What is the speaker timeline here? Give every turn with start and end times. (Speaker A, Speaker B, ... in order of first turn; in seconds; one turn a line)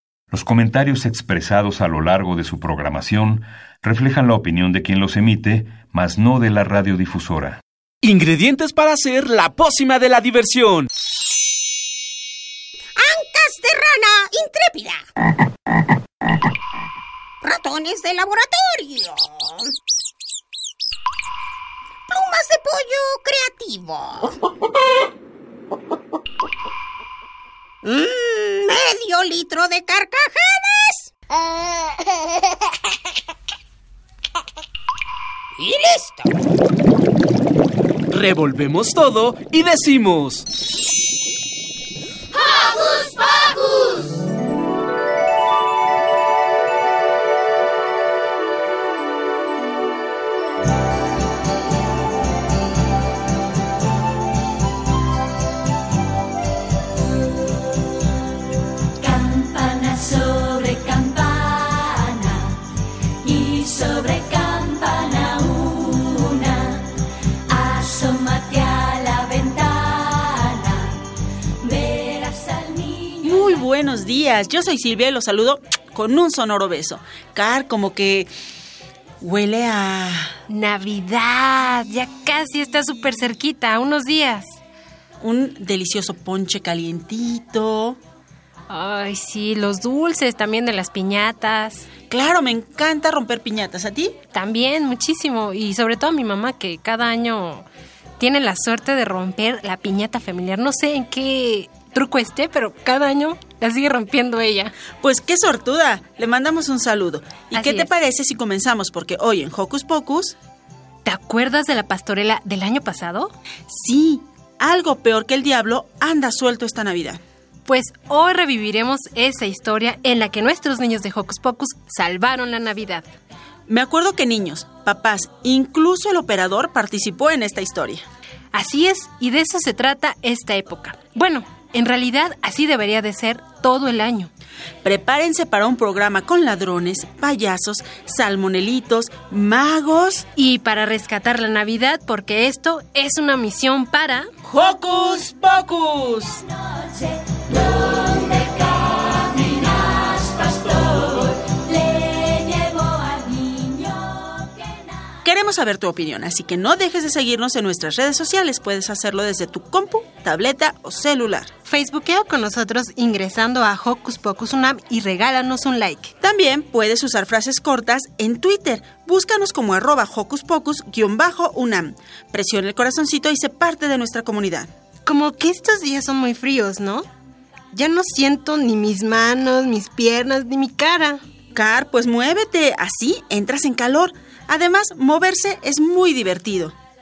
Speaker A: 0.3-7.6
Speaker B: 8.0-10.9
Speaker C: 13.0-15.0
Speaker C: 17.4-19.6
Speaker C: 22.1-24.3
Speaker C: 27.9-31.0
Speaker C: 35.7-36.0
Speaker B: 38.1-40.5
Speaker D: 73.2-78.3
Speaker D: 79.2-80.3
Speaker E: 80.5-84.6
Speaker D: 85.2-88.0
Speaker E: 88.7-91.9
Speaker D: 92.1-94.2
Speaker E: 94.3-97.7
Speaker E: 98.2-104.7
Speaker D: 105.0-110.3
Speaker E: 107.5-107.9
Speaker E: 111.0-113.3
Speaker D: 113.7-117.2
Speaker E: 117.7-123.1
Speaker D: 123.7-128.1
Speaker E: 128.5-134.3
Speaker D: 134.8-140.2
Speaker E: 140.4-144.3
Speaker D: 155.2-161.5
Speaker E: 161.7-166.1
Speaker D: 166.2-174.7
Speaker E: 175.1-177.1
Speaker E: 177.7-181.2
Speaker D: 181.5-186.8